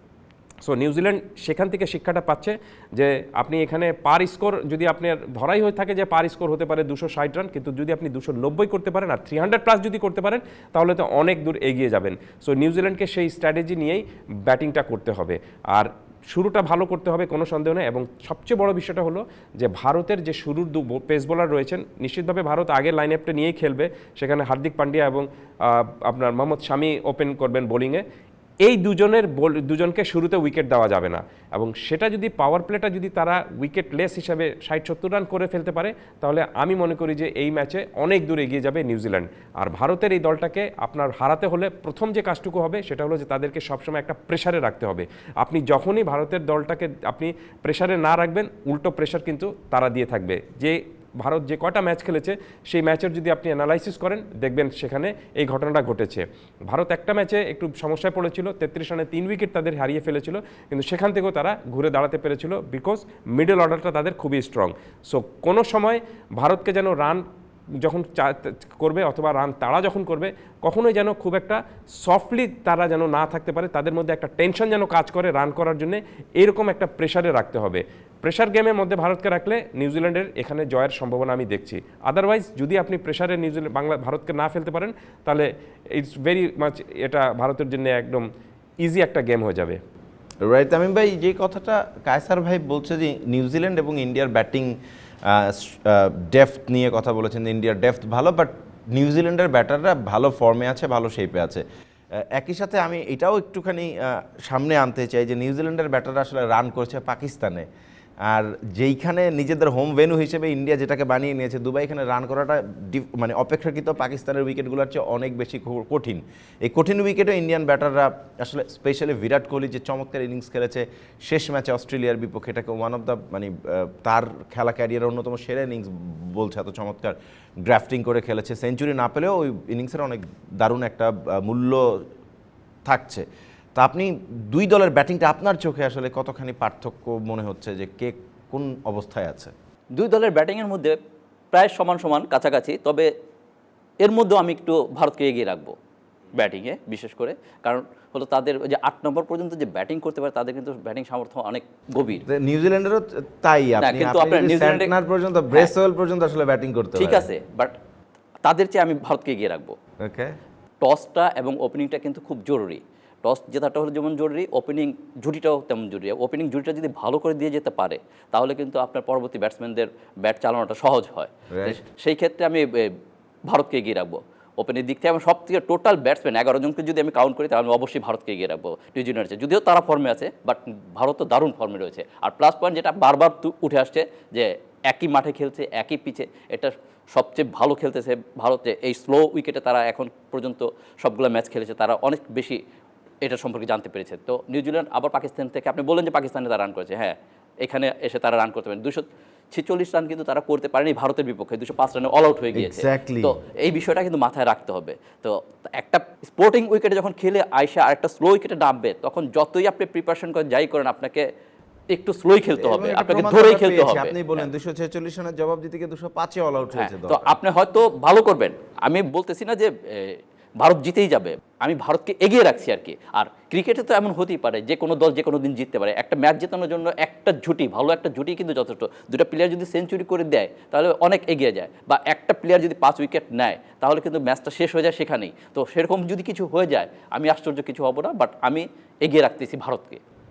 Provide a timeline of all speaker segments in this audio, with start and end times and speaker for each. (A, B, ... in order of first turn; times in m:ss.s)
0:00.6-0:28.0 A
0:28.6-1:07.2 A
1:07.8-1:28.3 A
1:28.8-1:29.8 A
1:30.4-1:47.7 B
1:48.2-2:12.0 B
2:12.8-2:19.5 B
2:19.9-2:21.0 C
2:21.5-2:23.1 C
2:24.0-2:25.8 C
2:26.4-2:32.3 C
2:32.3-2:37.3 B
2:33.8-2:34.9 C
2:37.0-2:37.8 C
2:38.4-2:39.8 C
2:40.0-2:40.4 B
2:40.8-3:12.6 C
2:51.5-2:51.8 B
3:13.2-3:31.3 C
3:22.5-3:23.4 B
3:31.9-3:34.4 C
3:32.6-3:37.4 B
3:36.8-4:00.0 C